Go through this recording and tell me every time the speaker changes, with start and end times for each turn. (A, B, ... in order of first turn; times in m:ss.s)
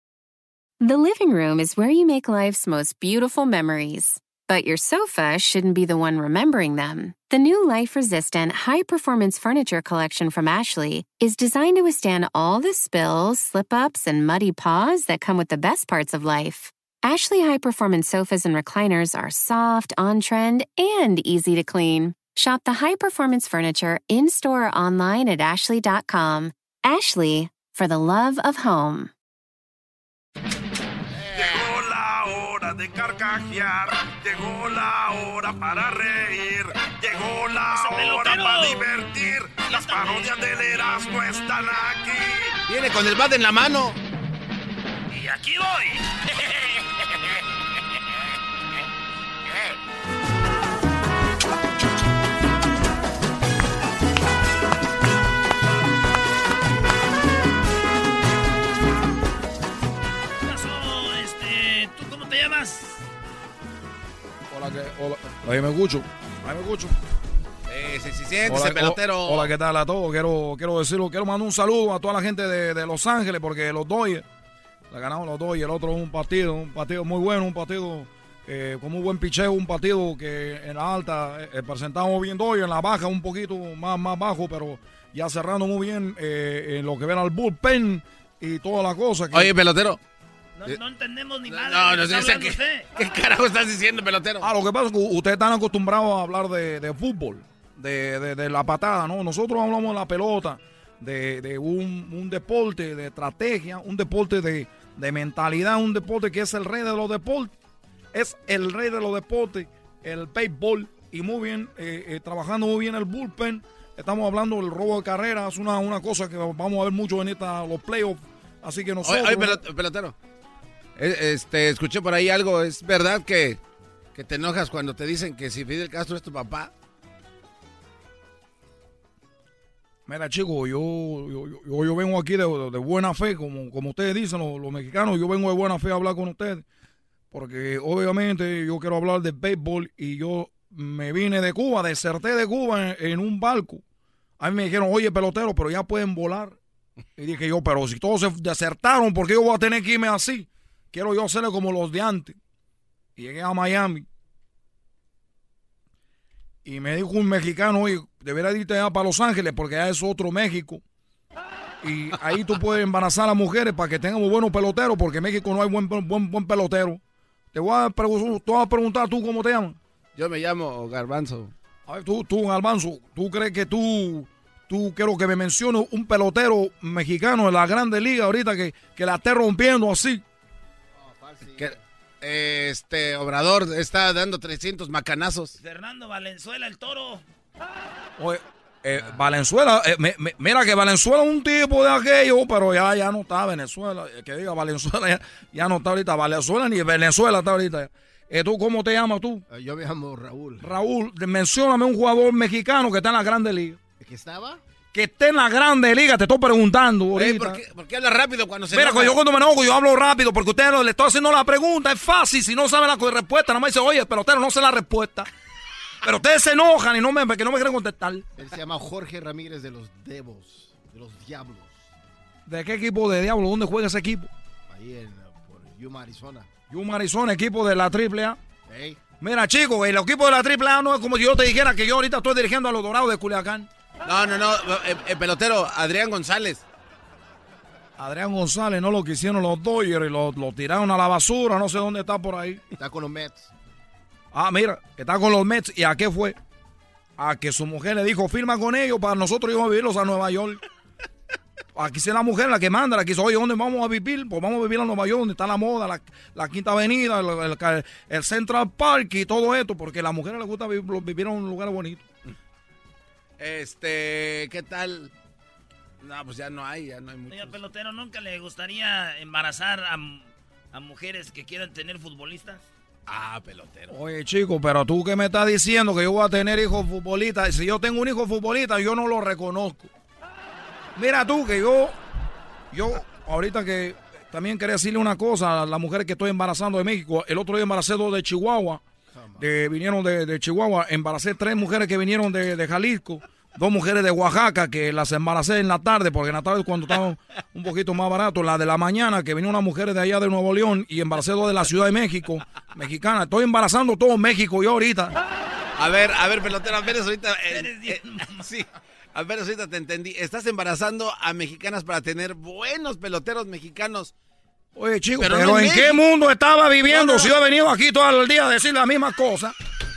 0:00.8-0:29.1 A
0:31.2-0:31.8 B
0:31.3-0:42.6 C
0:37.7-0:39.0 D
0:39.6-0:40.9 D
0:42.7-0:44.0 B
0:45.1-0:47.1 D
1:00.4-1:03.0 D
1:04.5-1:07.0 E
1:07.7-1:09.5 B
1:08.4-1:14.2 E
1:14.9-1:29.5 E
1:29.3-1:30.0 B
1:30.6-1:32.9 D
1:31.5-1:34.4 B
1:34.4-1:47.6 E
1:48.1-1:59.6 E
1:59.0-2:00.2 B
2:01.0-2:03.6 B
2:04.2-2:06.7 B
2:10.1-2:16.7 E
2:17.3-2:23.8 E
2:24.4-2:26.6 E
2:27.2-2:32.4 E
2:33.2-2:34.1 E
2:36.6-2:40.8 E
2:41.8-2:47.0 E
2:47.5-2:49.8 E
2:50.2-2:51.5 B
2:51.9-3:00.2 E
3:01.0-3:01.8 F
3:01.6-3:05.6 B
3:05.6-3:07.2 D
3:08.2-3:19.4 E
3:19.5-3:20.7 F
3:20.6-3:23.8 E
3:24.0-3:24.6 F
3:24.9-3:27.6 E
3:27.1-3:29.2 B
3:28.7-3:35.3 E
3:36.0-3:38.3 E
3:38.4-3:41.8 F
3:42.5-3:44.3 E
3:44.7-3:46.5 F
3:46.7-3:48.4 E
3:48.7-3:49.0 F
3:49.2-3:53.7 E
3:54.0-3:56.6 B
3:58.0-4:02.7 E
4:02.7-4:03.5 F
4:04.3-4:06.4 E
4:07.2-4:10.6 E
4:11.7-4:22.1 E
4:23.4-4:25.1 B
4:26.0-4:27.6 B
4:27.3-4:32.6 D
4:33.1-4:33.9 B
4:33.9-4:39.9 E
4:41.0-4:42.0 E
4:42.7-4:48.8 E
4:49.1-4:49.4 F
4:49.4-5:05.2 E
5:05.8-5:14.1 B
5:07.5-5:08.4 D
5:14.8-5:19.6 E
5:15.2-5:16.0 B
5:16.9-5:17.3 B